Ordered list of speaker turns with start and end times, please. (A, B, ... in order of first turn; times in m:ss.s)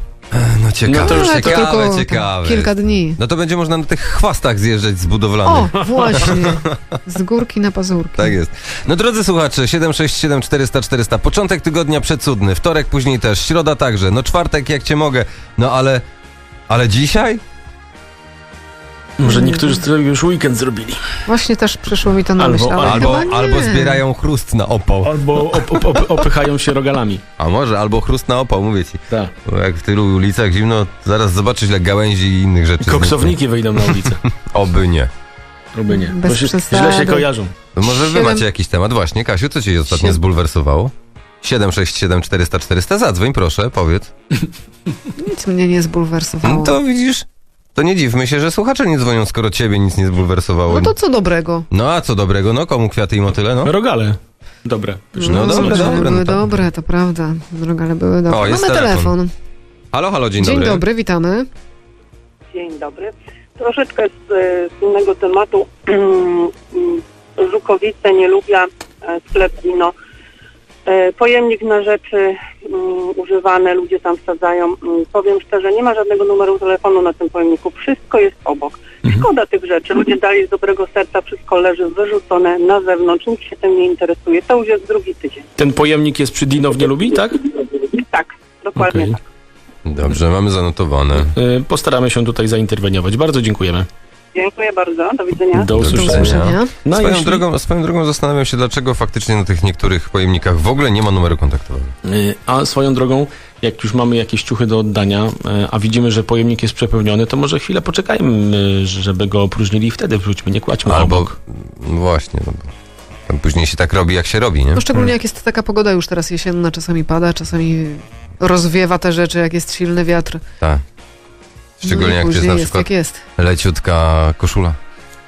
0:00.3-0:06.8 A
0:00.9-0:01.6 B
0:01.0-0:03.2 C
0:05.4-0:08.3 C
0:08.2-0:16.0 A
0:16.7-0:17.4 A
0:19.2-0:21.0 B
0:19.2-0:19.8 C
0:21.3-0:24.0 C
0:22.4-0:23.1 B
0:22.8-0:26.0 A
0:25.0-0:27.2 B
0:27.4-0:33.4 A
0:32.8-0:34.2 B
0:34.5-0:35.1 A
0:35.7-0:37.5 B
0:35.9-0:37.3 C
0:37.7-0:44.1 A
0:37.8-0:38.4 C
0:45.2-0:46.8 C
0:46.4-0:50.9 A
0:50.7-0:51.7 C
0:51.7-0:53.7 A
0:53.6-0:56.0 B
0:55.2-0:59.3 C
0:55.2-0:56.4 A
0:58.3-0:59.1 A
0:59.9-1:00.8 A
1:00.4-1:01.5 C
1:02.5-1:09.9 D
1:10.8-1:25.5 D
1:25.6-1:27.4 B
1:28.0-1:29.2 D
1:28.8-1:29.1 B
1:29.8-1:31.3 A
1:31.2-1:33.9 B
1:34.3-1:35.7 D
1:35.5-1:37.4 B
1:35.7-1:41.9 A
1:35.9-1:36.7 C
1:42.0-1:51.3 B
1:50.9-1:52.7 A
1:53.3-1:54.8 A
1:54.7-2:00.4 C
2:01.8-2:04.8 A
2:01.8-2:03.2 C